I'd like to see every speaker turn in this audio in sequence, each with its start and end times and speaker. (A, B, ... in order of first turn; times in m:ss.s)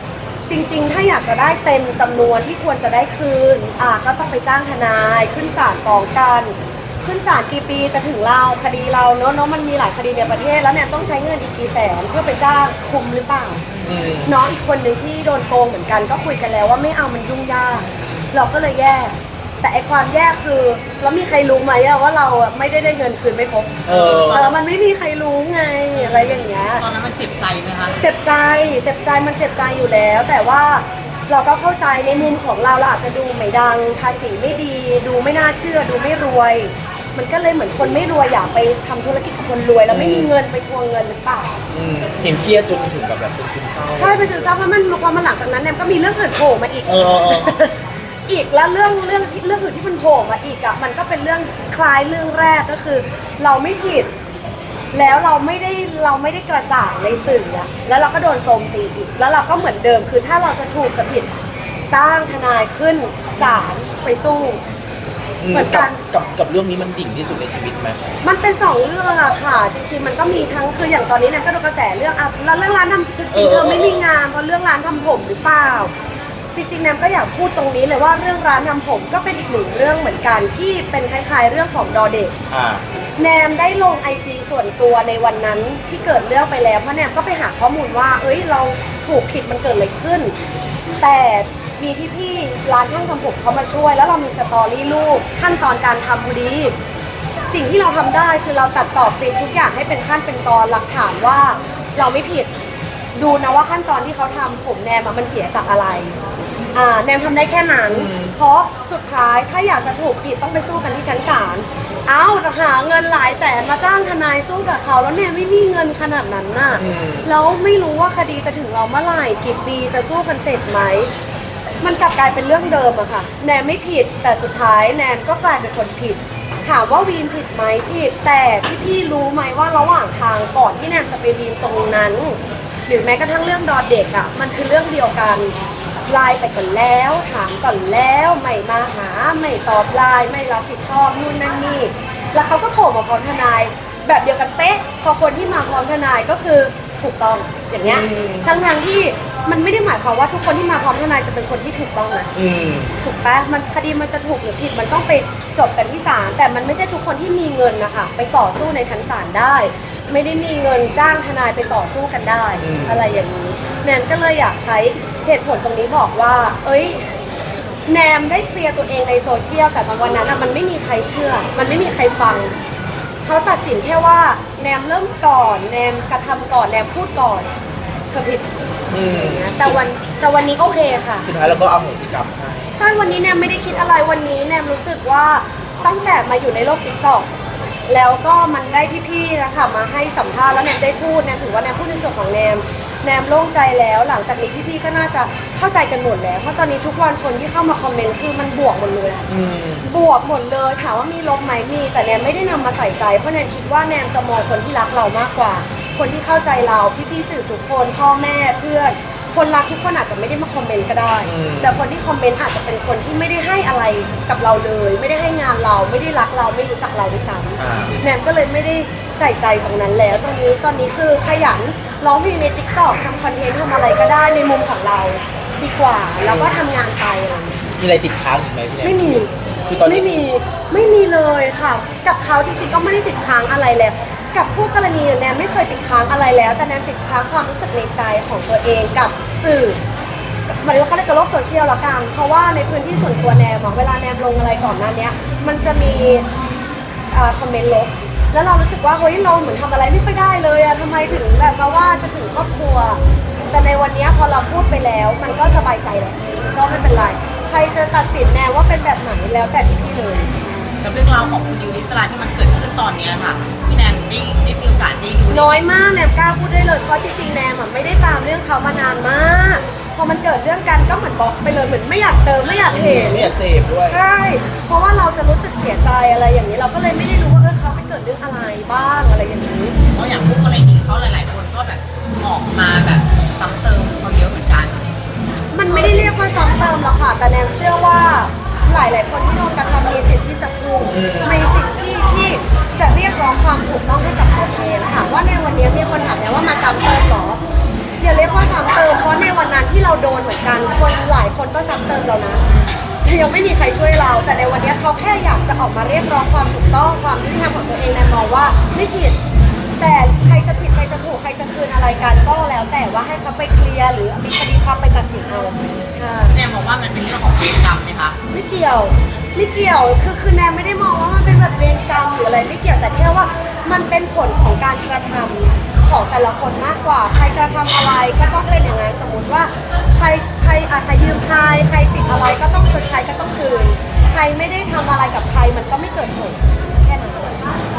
0:00.5-0:13.6 A
0:13.8-0:14.3 B
0:14.2-0:26.8 A
0:17.9-0:18.2 C
0:23.8-0:24.5 B
0:25.9-0:28.0 C
0:28.0-0:41.6 A
0:39.9-0:40.3 B
0:41.7-0:44.4 B
0:44.0-0:54.1 A
0:46.8-0:47.6 B
0:54.9-1:01.3 A
1:01.9-1:04.6 A
1:05.4-1:08.0 B
1:05.5-1:06.0 A
1:08.2-1:15.9 A
1:13.3-1:14.0 B
1:16.5-1:22.4 A
1:22.5-1:22.8 B
1:23.2-1:30.3 A
1:31.0-1:36.7 A
1:37.5-1:42.5 A
1:43.2-1:46.2 A
1:46.7-2:01.1 A
1:47.9-1:48.4 B
1:56.8-1:57.3 B
2:01.8-2:15.5 A
2:16.1-2:32.3 A
2:27.8-2:28.5 B
2:32.3-2:32.9 B
2:33.0-2:47.0 A
2:42.6-2:43.1 B
2:47.9-2:52.5 A
2:53.2-2:57.5 A
2:58.1-3:01.3 A
2:58.9-2:59.8 B
3:01.2-3:02.7 B
3:02.7-3:07.3 A
3:07.9-3:19.3 A
3:19.3-3:19.8 B
3:19.8-3:47.6 A
3:31.2-3:31.7 B
3:37.6-3:38.0 B
3:46.2-3:46.6 B
3:47.8-3:50.2 B
3:48.8-3:49.3 A
3:49.8-3:59.8 A
4:00.5-4:06.2 A
4:07.1-4:20.3 A
4:20.8-4:25.6 C
4:25.3-4:39.8 A
4:32.7-4:34.0 B
4:39.9-4:44.9 C
4:45.5-4:57.4 A
4:50.9-4:51.4 B
4:58.0-5:02.4 A
5:02.5-5:02.8 C
5:03.0-5:09.2 A
5:09.8-5:16.4 A
5:16.3-5:18.2 C
5:18.3-5:37.6 A